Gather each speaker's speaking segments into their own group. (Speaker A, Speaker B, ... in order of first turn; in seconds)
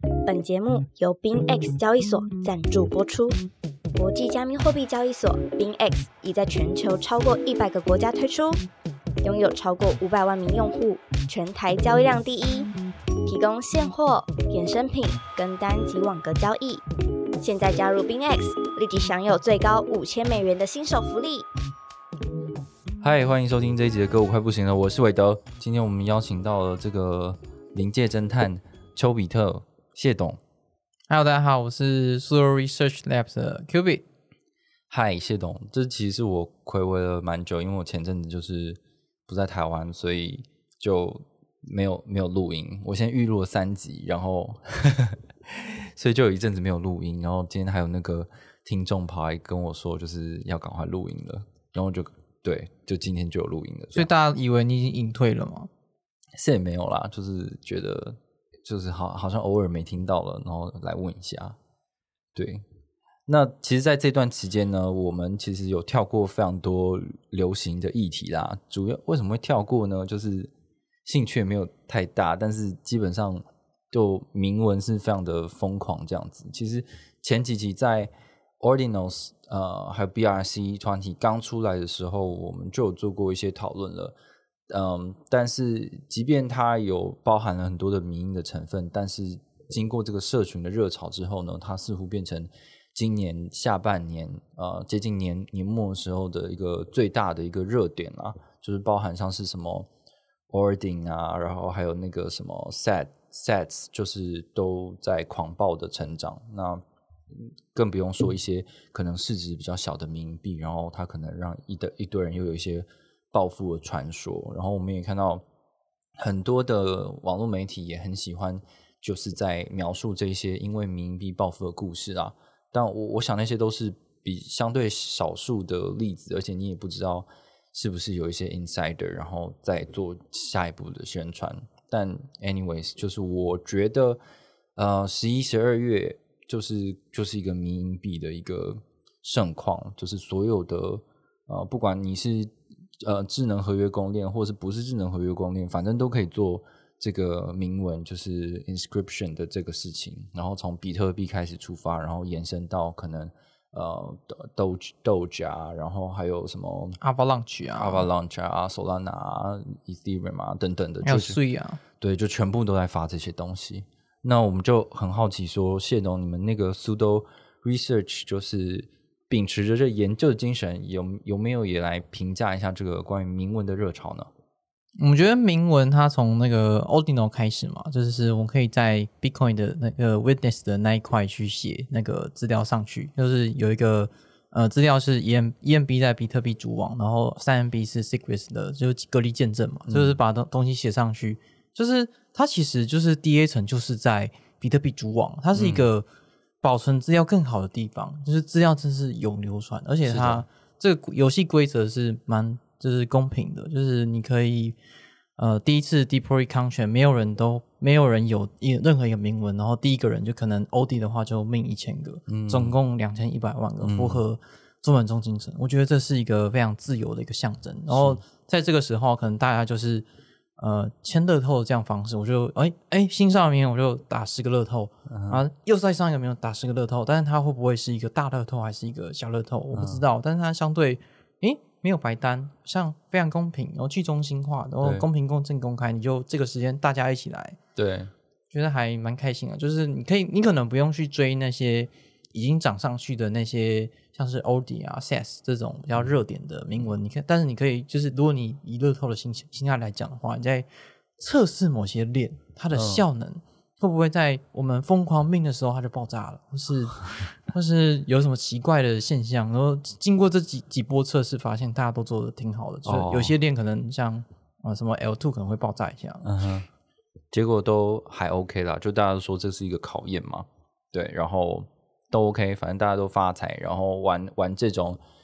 Speaker A: 0.2-3.4, 4.0-8.6, 9.2-12.7, 13.3-16.8, 17.4-21.5
Speaker B: 23.0-30.4, 34.9-54.1, 56.4-61.6, 62.4-62.6, 63.3-70.5, 71.1-84.2, 84.7-99.9, 100.5-115.4, 116.2-134.2, 134.8-157.0, 157.8-161.4, 162.0-174.3, 189.9-190.2, 195.5-195.9, 200.1-200.4, 212.3-212.8, 213.8-214.2, 217.9-218.2, 225.1-225.4, 229.7-230.0, 237.8-238.1, 252.7-253.1, 262.9-263.3, 266.2-266.7, 267.3-275.0
Speaker C: 31.1-34.0, 54.0-55.7, 157.0-158.1, 161.0-161.8, 175.0-196.1, 196.6-204.8, 205.4-220.1, 220.6-237.6, 238.5-250.7, 251.2-266.2